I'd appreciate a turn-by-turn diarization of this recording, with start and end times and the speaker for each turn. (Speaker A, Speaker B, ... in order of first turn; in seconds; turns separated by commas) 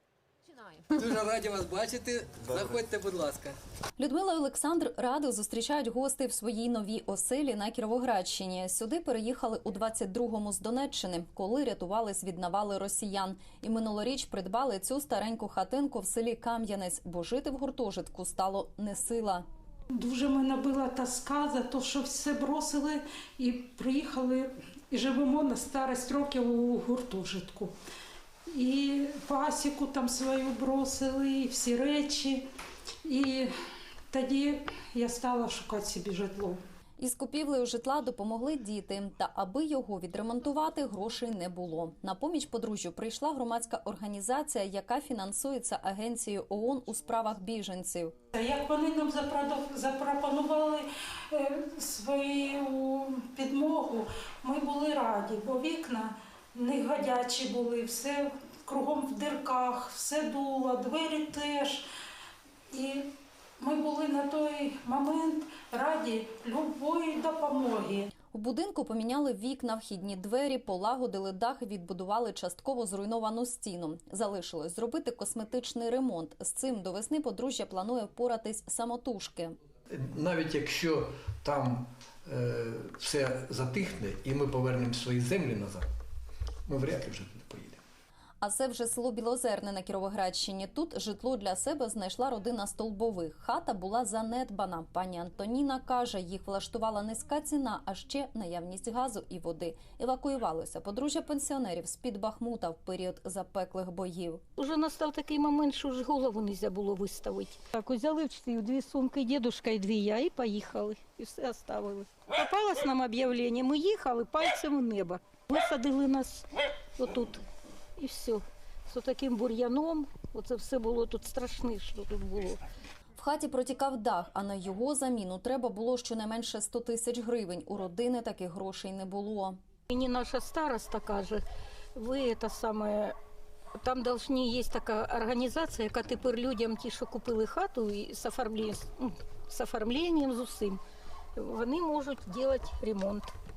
Speaker A: 1.0-3.6, Speaker B: 4.0-19.4, Speaker C: 20.0-27.7, Speaker C: 28.5-32.5, Speaker C: 33.0-33.5, Speaker C: 34.1-36.6, Speaker B: 37.0-48.1, Speaker C: 48.4-61.9, Speaker C: 62.7-68.1, Speaker B: 68.3-79.5, Speaker D: 80.0-85.8, Speaker D: 86.7-87.8, Speaker B: 88.4-104.4, Speaker E: 104.6-117.4, Speaker E: 118.0-122.6, Speaker B: 123.2-129.6, Speaker E: 129.9-131.4, Speaker E: 132.0-133.2, Speaker E: 133.8-140.8, Speaker E: 141.4-143.3